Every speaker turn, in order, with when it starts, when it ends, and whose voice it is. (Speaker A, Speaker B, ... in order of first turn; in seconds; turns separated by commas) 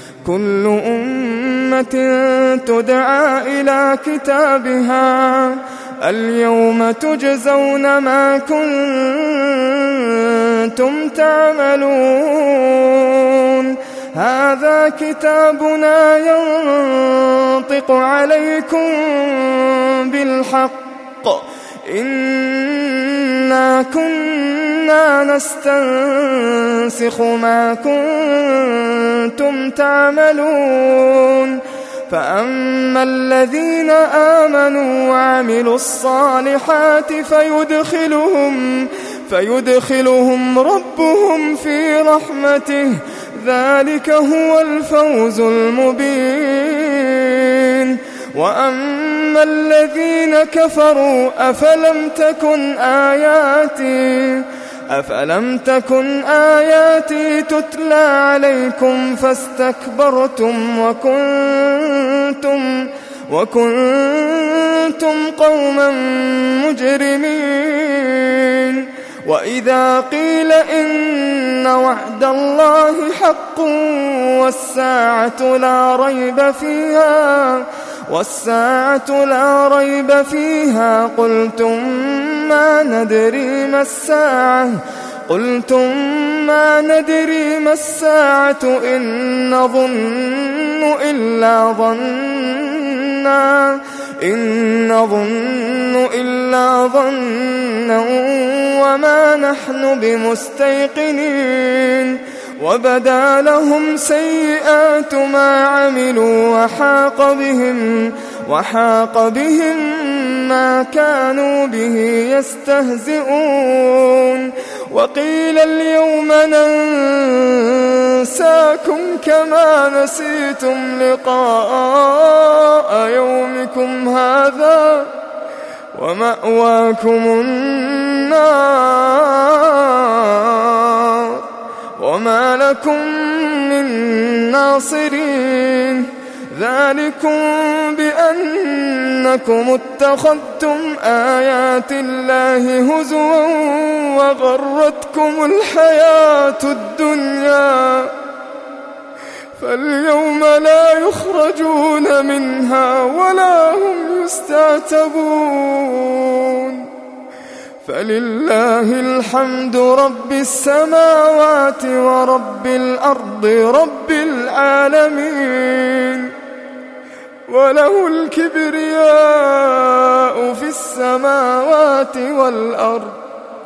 Speaker A: 0.2-84.7, Speaker A: 85.3-125.1, Speaker A: 125.9-131.4, Speaker A: 132.0-148.1, Speaker A: 149.6-156.9, Speaker A: 157.8-166.3, Speaker A: 167.5-173.2